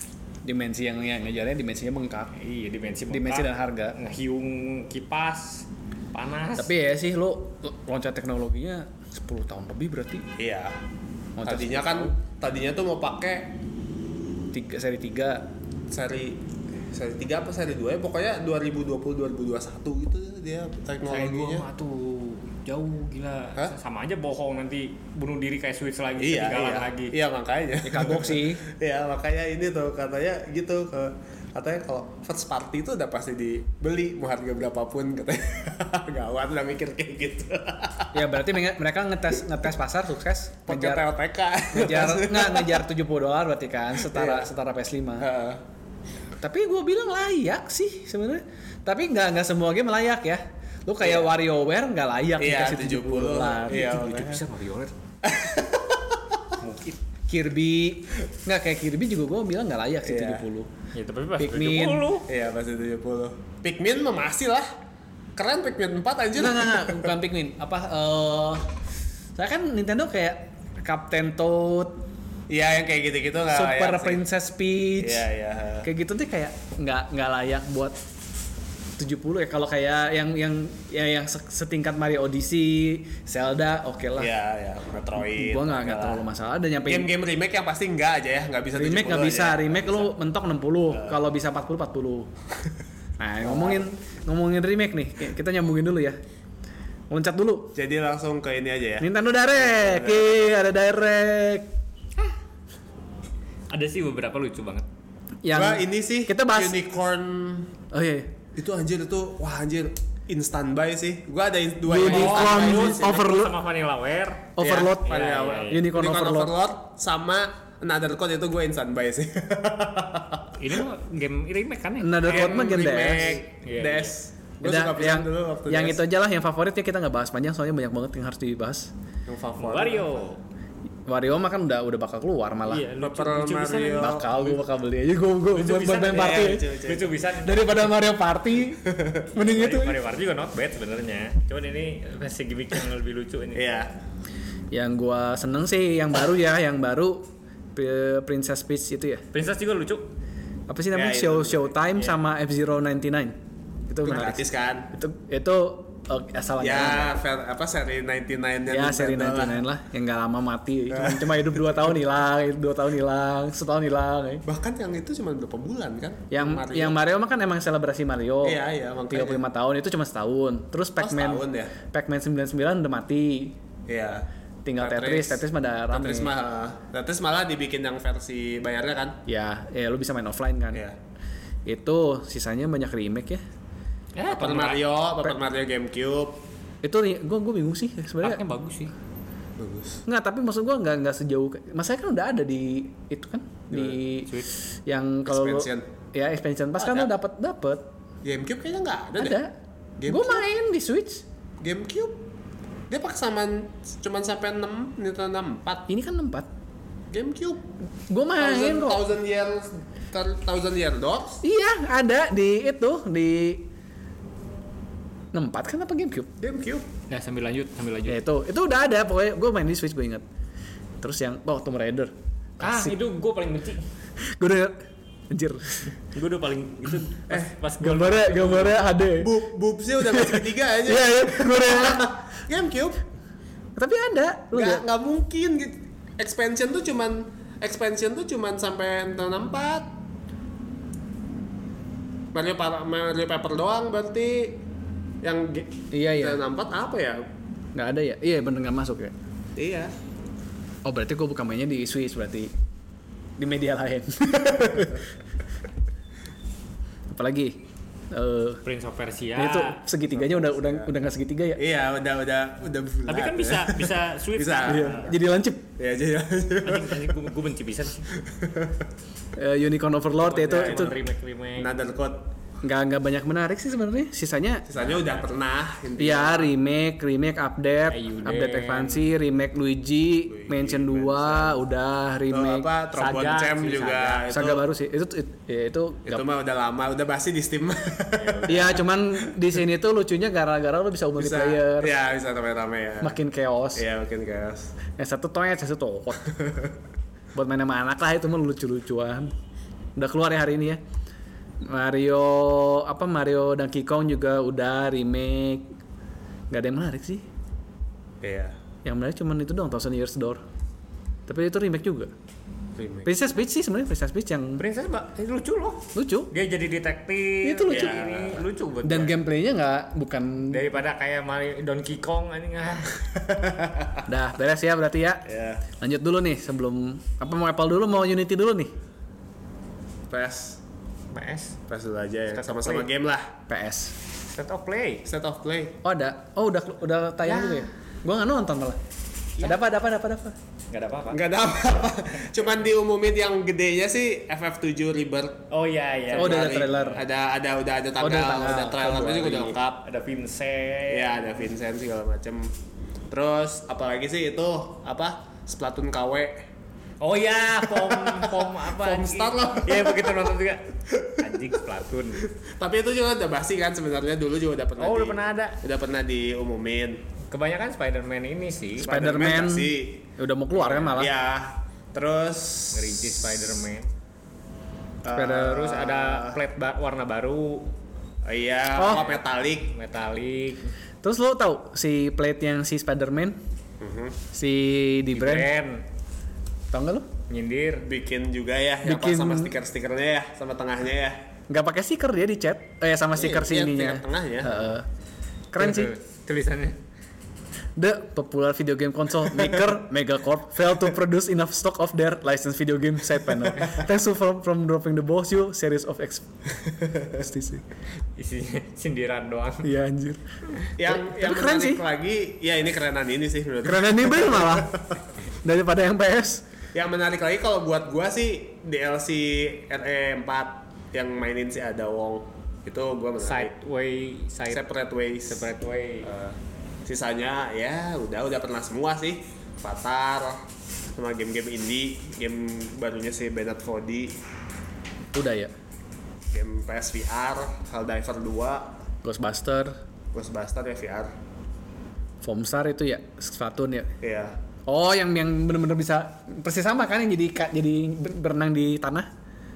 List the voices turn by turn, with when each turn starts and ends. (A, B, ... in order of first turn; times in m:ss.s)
0:00.4-0:02.3 A
0:02.4-0:06.7 B
0:03.1-0:04.0 A
0:06.6-0:10.3 A
0:10.4-0:10.8 C
0:11.4-0:12.2 A
0:11.4-0:13.6 C
0:14.5-0:15.5 A
0:15.9-0:16.4 C
0:16.9-0:21.7 C
0:21.0-0:27.2 B
0:26.2-0:38.3 C
0:27.8-0:28.6 A
0:38.1-0:41.1 A
0:40.7-0:42.9 C
0:41.7-0:45.3 A
0:44.0-0:44.5 C
0:45.2-0:45.6 C
0:46.4-0:54.0 A
0:51.0-0:51.3 C
0:52.4-0:54.4 C
0:53.7-0:54.9 B
0:55.2-0:56.2 C
0:56.6-0:57.0 B
0:57.3-1:00.7 A
1:00.1-1:00.4 C
1:00.9-1:02.3 B
1:01.4-1:02.1 A
1:02.3-1:04.7 C
1:05.4-1:07.1 C
1:06.4-1:08.7 A
1:09.4-1:12.0 A
1:12.5-1:14.2 C
1:13.5-1:15.3 A
1:15.0-1:15.9 C
1:15.8-1:18.0 A
1:19.0-1:24.3 A
1:24.2-1:26.2 C
1:25.2-1:27.1 A
1:26.9-1:30.1 C
1:28.8-1:32.3 A
1:30.9-1:31.2 C
1:33.2-1:36.2 A
1:33.4-1:33.9 C
1:37.1-1:37.8 A
1:37.8-1:40.4 C
1:39.0-1:41.7 A
1:43.7-1:44.9 B
1:45.4-1:46.8 A
1:45.5-1:47.7 C
1:47.9-1:48.3 A
1:48.6-1:53.3 C
1:51.9-1:53.5 A
1:52.0-1:55.9 B
1:54.6-1:56.6 A
1:54.6-2:00.6 C
2:00.6-2:04.1 B
2:02.0-2:03.4 A
2:02.2-2:06.0 C
2:04.6-2:08.9 A
2:09.3-2:10.2 C
2:09.6-2:10.4 B
2:11.1-2:12.9 A
2:12.7-2:14.2 B
2:13.0-2:14.6 C
2:14.0-2:16.7 A
2:15.5-2:17.9 B
2:16.1-2:17.2 C
2:17.4-2:20.0 A
2:18.9-2:19.3 C
2:19.4-2:23.8 B
2:23.6-2:23.9 C
2:24.7-2:29.2 A
2:29.3-2:30.1 B
2:30.7-2:33.4 A
2:30.9-2:31.7 C
2:33.9-2:37.2 A
2:34.0-2:34.9 C
2:36.6-2:39.6 C
2:38.7-2:44.4 A
2:40.9-2:41.8 C
2:44.4-2:47.0 C
2:46.3-2:53.6 A
2:48.4-2:49.4 C
2:51.0-2:51.7 C
2:53.9-2:54.3 C
2:54.6-2:56.3 A
2:54.8-2:59.2 C
2:59.3-3:00.8 A
3:01.7-3:03.4 A
3:04.2-3:04.9 B
3:04.3-3:06.4 C
3:06.8-3:08.4 A
3:08.2-3:08.9 B
3:09.6-3:10.0 C
3:10.1-3:14.3 A
3:13.7-3:14.0 C
3:14.9-3:17.9 A
3:15.3-3:15.9 C
3:16.8-3:17.1 C
3:18.2-3:19.4 C
3:19.2-3:19.5 A
3:20.0-3:20.5 C
3:20.0-3:21.2 A
3:21.6-3:22.2 C
3:22.9-3:25.9 C
3:25.9-3:26.5 A
3:27.1-3:27.6 C
3:28.1-3:29.1 A
3:28.4-3:31.4 C
3:31.4-3:33.7 A
3:35.3-3:36.3 A
3:36.4-3:36.9 C
3:37.1-3:38.2 B
3:38.1-3:40.2 A
3:41.0-3:43.0 A
3:42.6-3:43.8 B
3:44.3-3:45.9 A
3:46.1-3:48.8 B
3:47.3-3:49.3 A
3:49.2-3:53.0 C
3:50.0-3:52.1 A
3:53.8-3:54.8 A
3:54.5-3:59.9 C
4:02.3-4:04.6 C
4:05.2-4:07.2 C
4:05.9-4:06.4 A
4:07.8-4:09.1 A
4:09.6-4:09.9 C
4:10.8-4:12.5 A
4:13.4-4:15.0 A
4:14.6-4:14.8 C
4:17.1-4:18.6 A
4:18.6-4:19.8 B
4:19.4-4:21.6 A
4:20.1-4:20.9 C
4:21.6-4:25.1 C
4:23.1-4:25.1 B
4:24.7-4:25.7 A
4:25.8-4:27.1 C
4:26.6-4:28.1 B
4:28.3-4:28.8 C
4:29.4-4:30.9 A
4:30.2-4:31.7 B
4:30.4-4:31.0 C
4:31.6-4:32.2 C
4:32.6-4:34.7 A
4:34.7-4:36.5 C
4:34.8-4:35.1 B
4:36.0-4:42.7 A
4:37.9-4:39.1 B
4:40.3-4:41.6 C
4:42.3-4:44.6 C
4:42.9-4:44.3 B
4:44.3-4:46.2 A
4:46.1-4:49.3 C
4:48.2-4:48.8 B
4:48.5-4:51.9 A
4:51.2-4:53.2 C
4:53.0-4:53.8 A
4:53.8-4:54.7 C
4:55.0-4:56.3 A
4:57.4-4:59.3 A
5:00.0-5:00.8 A
5:01.6-5:05.7 A
5:06.5-5:07.2 A
5:08.2-5:08.6 C
5:08.8-5:10.4 A
5:11.3-5:12.1 A
5:12.8-5:13.1 C
5:13.0-5:14.6 A
5:14.6-5:19.2 B
5:16.0-5:16.3 A
5:17.4-5:18.1 A
5:17.7-5:18.5 C
5:18.8-5:20.6 A
5:20.5-5:23.0 B
5:23.4-5:23.9 C
5:24.1-5:28.7 A
5:25.3-5:25.6 C
5:30.1-5:30.6 C
5:31.1-5:31.6 B
5:31.7-5:33.3 C
5:32.3-5:32.9 B
5:33.5-5:34.0 A
5:34.3-5:35.1 B
5:35.1-5:35.8 C
5:35.8-5:38.8 A
5:37.3-5:37.7 B
5:39.4-5:40.4 A
5:40.7-5:41.2 B
5:41.1-5:45.5 C
5:45.5-5:47.0 B
5:46.1-5:49.8 C
5:46.2-5:47.0 A
5:48.0-5:49.6 A
5:49.8-5:51.4 B
5:50.9-5:52.5 C
5:53.1-5:56.4 C
5:57.0-6:02.3 B
5:57.7-6:00.2 C
6:02.4-6:07.0 C
6:04.8-6:05.6 B
6:07.3-6:08.9 B
6:08.8-6:10.0 C
6:08.9-6:11.1 A
6:10.6-6:10.9 B
6:10.7-6:13.6 C
6:12.7-6:13.9 B
6:15.0-6:16.4 C
6:15.1-6:15.7 A
6:15.4-6:17.7 B
6:18.2-6:19.8 C
6:18.8-6:19.0 A
6:18.9-6:20.7 B
6:21.0-6:23.4 A
6:23.8-6:24.2 C
6:24.3-6:25.5 A
6:25.1-6:25.9 B
6:26.7-6:27.1 A
6:27.3-6:27.9 B
6:27.8-6:31.2 C
6:28.8-6:29.5 A
6:31.5-6:34.9 A
6:33.2-6:34.6 C
6:35.5-6:35.9 A
6:35.6-6:36.8 B
6:37.8-6:46.3 A
6:47.1-6:47.6 A
6:48.2-6:49.7 B
6:49.6-6:50.2 A
6:50.8-6:55.0 C
6:50.8-6:51.8 A
6:53.6-6:54.8 A
6:55.4-6:56.4 A
6:56.7-7:03.5 C
7:03.2-7:04.7 B
7:04.5-7:05.5 C
7:05.3-7:06.1 B
7:06.0-7:10.4 C
7:11.0-7:14.2 C
7:15.1-7:15.5 A
7:16.3-7:18.8 C
7:19.0-7:19.8 A
7:20.1-7:21.1 C
7:22.2-7:23.9 A
7:24.0-7:24.4 C
7:24.7-7:29.1 A